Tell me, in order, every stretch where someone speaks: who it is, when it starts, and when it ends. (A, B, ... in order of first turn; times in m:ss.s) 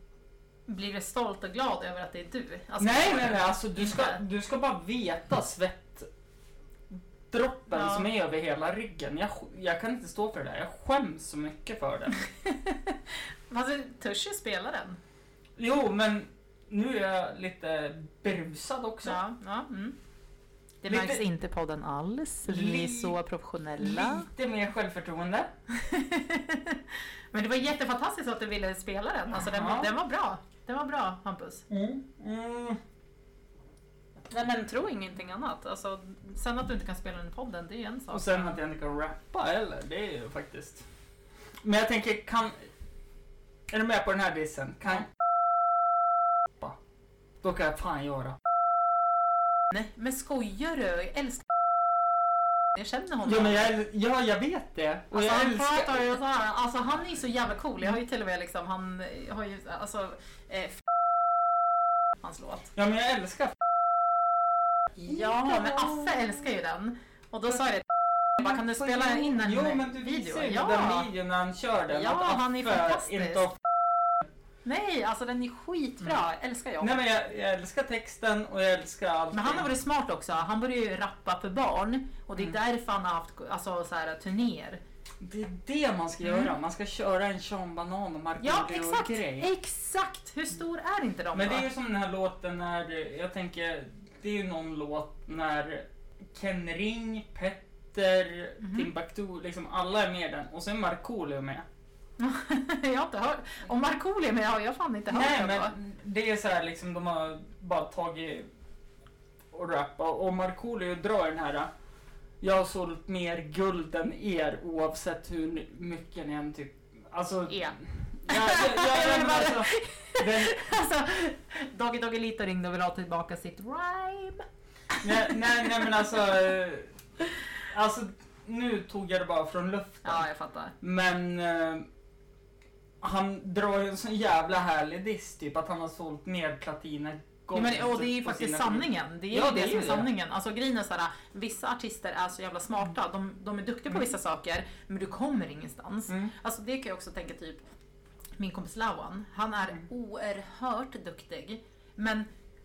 0:00.7-0:04.2 A
0:02.8-0:06.1 B
0:07.3-0:12.2 B
0:07.7-0:08.1 A
0:12.2-0:15.0 A
0:15.6-0:19.2 B
0:19.0-0:20.0 A
0:20.8-0:24.3 A
0:20.9-0:21.2 B
0:22.4-0:23.2 B
0:23.8-0:25.5 B
0:25.7-0:31.6 A
0:29.4-0:29.9 B
0:31.7-0:32.8 B
0:34.3-0:38.6 A
0:38.1-0:40.8 B
0:41.6-0:42.6 B
0:43.7-0:45.1 B
0:47.4-0:48.4 B
0:49.7-0:51.5 A
0:52.7-0:53.7 A
0:53.2-0:56.1 B
0:55.1-1:00.9 A
1:02.2-1:02.7 A
1:02.7-1:03.6 B
1:05.0-1:11.1 A
1:05.0-1:06.2 B
1:08.4-1:13.6 B
1:11.9-1:13.4 A
1:14.6-1:17.0 A
1:16.8-1:19.7 B
1:19.3-1:24.8 A
1:25.2-1:29.5 B
1:26.2-1:26.5 A
1:28.4-1:31.7 A
1:31.3-1:41.6 B
1:38.6-1:38.9 A
1:42.2-1:45.7 A
1:45.1-1:48.5 B
1:49.5-1:51.7 B
1:52.4-2:00.6 B
1:57.5-1:57.8 A
1:58.3-2:04.4 A
2:05.0-2:06.9 B
2:07.6-2:10.2 B
2:10.0-2:10.7 A
2:10.8-2:11.9 B
2:13.0-2:20.1 B
2:17.5-2:27.6 A
2:26.1-2:26.3 B
2:28.4-2:32.3 A